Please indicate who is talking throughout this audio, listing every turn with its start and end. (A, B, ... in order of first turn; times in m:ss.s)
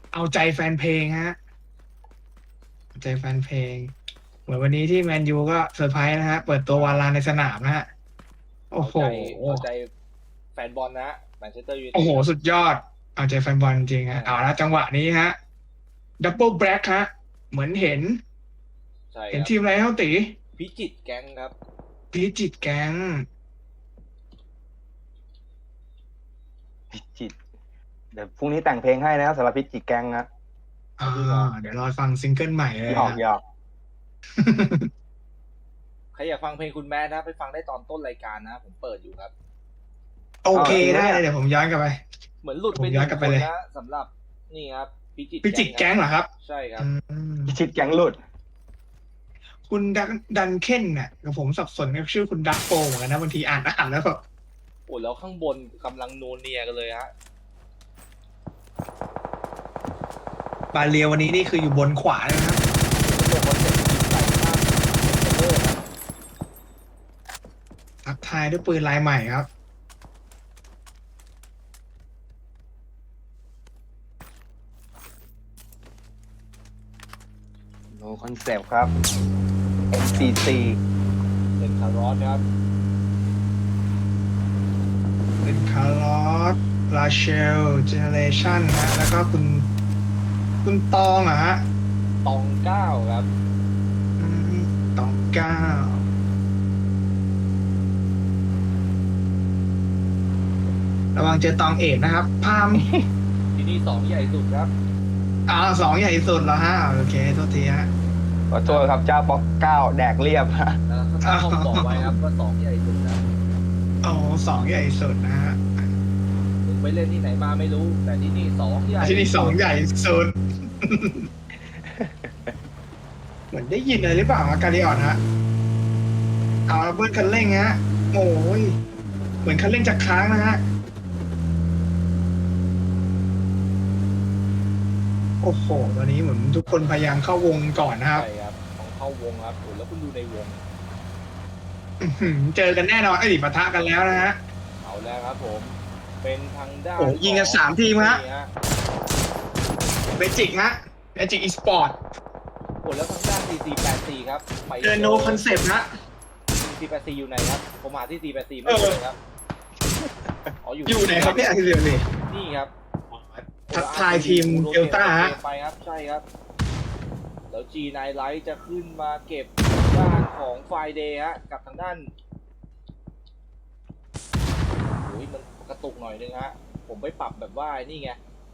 0:00.1-0:01.4 A
0:02.9-0:03.9 A
0:04.5-0:07.9 A
0:06.7-0:07.0 B
0:08.7-0:09.6 A
0:08.8-0:09.9 B
0:10.6-0:12.3 B
0:11.9-0:15.4 A
0:14.1-0:14.4 B
0:16.2-0:18.2 A
0:19.1-0:19.5 B
0:19.3-0:20.4 A
0:20.6-0:21.5 B
0:22.1-0:23.2 A
0:26.9-0:27.4 C
0:28.1-0:30.3 C
0:31.0-0:33.2 A
0:31.0-0:31.5 B
0:32.9-0:33.4 C
0:34.4-0:34.9 A
0:36.2-0:39.3 B
0:40.4-0:42.0 A
0:40.5-0:41.2 C
0:42.4-0:46.9 B
0:42.7-0:43.5 A
0:45.4-0:47.6 A
0:47.5-0:48.2 C
0:49.7-0:54.2 A
0:54.9-0:57.1 B
1:00.7-1:02.6 A
1:03.0-1:05.8 B
1:08.0-1:09.5 A
1:17.9-1:18.9 C
1:19.9-1:20.8 C
1:20.1-1:20.4 B
1:21.6-1:22.4 B
1:25.4-1:29.7 A
1:30.6-1:31.7 A
1:32.2-1:33.3 B
1:34.2-1:36.1 A
1:41.2-1:42.9 A
1:42.8-1:43.1 C
1:43.6-1:44.7 B
1:45.5-1:47.9 A
1:48.5-1:50.8 C
1:48.6-1:49.0 B
1:50.9-1:53.2 B
1:51.2-1:52.2 A
1:54.0-1:55.9 A
1:56.6-1:59.6 B
1:59.0-2:01.3 A
2:01.6-2:02.5 C
2:03.5-2:05.2 A
2:06.7-2:08.8 A
2:09.4-2:10.6 A
2:15.4-2:18.2 A
2:18.1-2:20.6 B
2:22.0-2:24.4 A
2:24.8-2:28.5 B
2:27.0-2:28.2 A
2:30.2-2:32.0 A
2:32.8-2:35.4 B
2:34.8-2:35.9 A
2:36.6-2:39.2 B
2:38.6-2:39.0 A
2:40.0-2:40.5 C
2:40.6-2:41.7 B
2:40.9-2:42.1 A
2:42.2-2:42.7 B
2:43.1-2:45.4 A
2:43.7-2:46.2 B
2:47.5-2:52.1 B
2:55.0-2:58.2 B